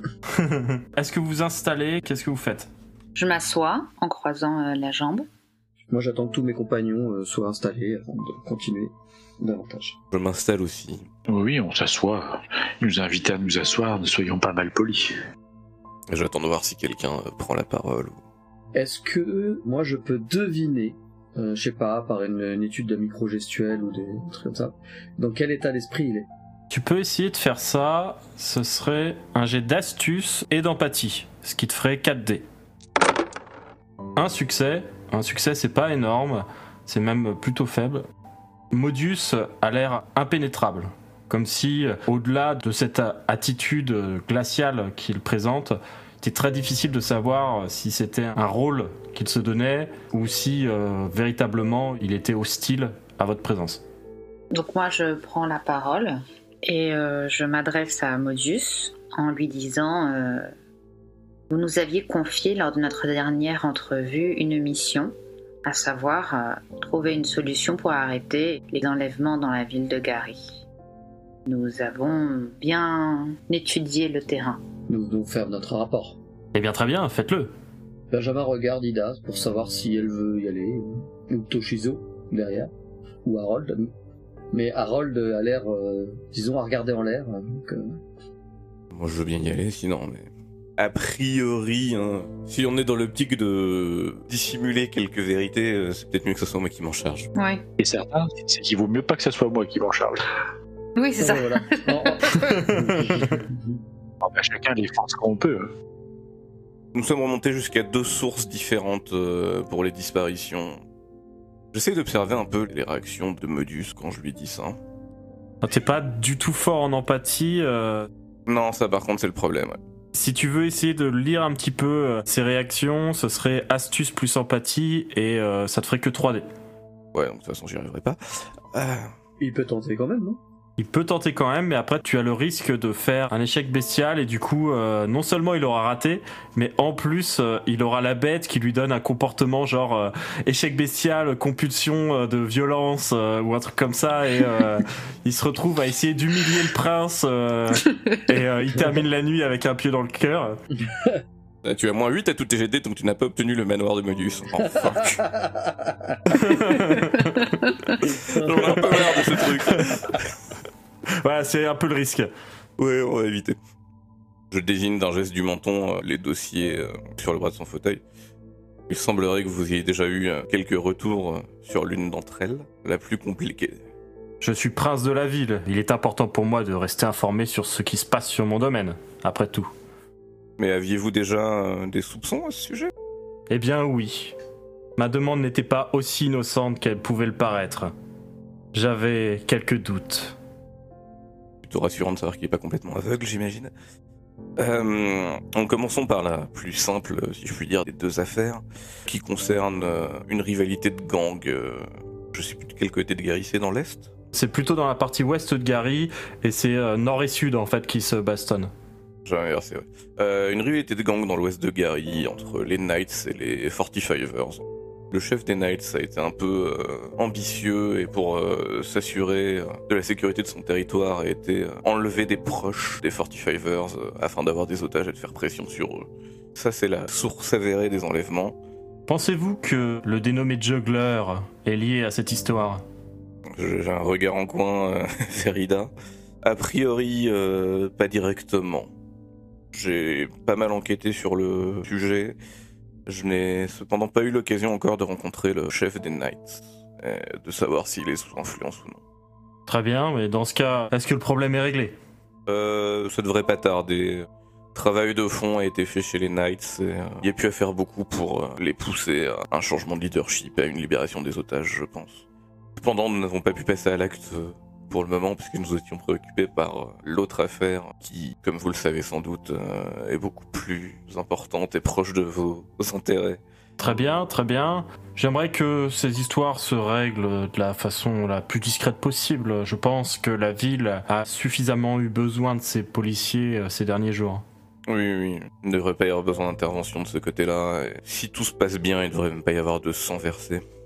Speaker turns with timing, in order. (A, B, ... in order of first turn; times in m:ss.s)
0:00.3-0:02.7 A
0:03.2-0:05.3 B
0:05.9-0:10.0 C
0:10.1-0:11.1 D
0:11.3-0:15.2 E
0:16.1-0:18.2 D
0:18.8-0:26.3 C
0:26.7-0:32.4 A
0:34.2-0:38.0 A
0:38.7-0:53.8 A
0:54.5-1:00.5 B
1:01.5-1:05.1 B
1:05.6-1:10.4 B
1:11.5-1:14.6 B
1:14.9-1:16.2 C
1:16.5-1:17.5 A
1:18.1-1:22.7 C
1:23.2-1:23.9 C
1:24.5-1:28.0 C
1:28.9-1:37.3 D
1:37.4-1:37.6 B
1:37.8-1:40.2 E
1:41.0-1:42.7 B
1:41.2-1:43.8 C
1:44.2-1:45.7 E
1:46.9-1:50.8 D
1:51.7-1:54.8 D
1:55.6-1:58.1 A
1:58.5-1:59.8 D
2:00.1-2:06.5 A
2:07.1-2:09.1 D
2:09.4-2:10.4 C
2:10.8-2:30.6 A
2:30.8-2:31.2 C
2:31.6-2:35.3 D
2:35.4-2:36.2 C
2:36.3-2:37.6 A
2:38.2-2:39.4 C
2:38.3-2:40.3 D
2:41.2-2:42.3 A
2:42.8-2:43.6 D
2:44.5-2:48.0 D
2:48.9-2:53.8 D
2:54.4-2:59.7 A
3:00.6-3:02.9 D
3:03.5-3:04.4 A
3:05.0-3:07.9 A
3:08.7-3:10.4 A
3:11.6-3:13.7 D
3:14.6-3:24.1 D
3:24.3-3:28.7 A
3:29.3-3:48.6 D
3:49.1-3:52.8 A
3:53.5-3:55.9 D
3:56.4-3:58.9 D
3:59.7-4:02.4 D
4:03.1-4:09.0 D
4:09.7-4:12.0 A
4:12.5-4:22.2 D
4:22.8-4:33.4 D
4:33.8-4:44.4 A
4:44.9-4:50.6 D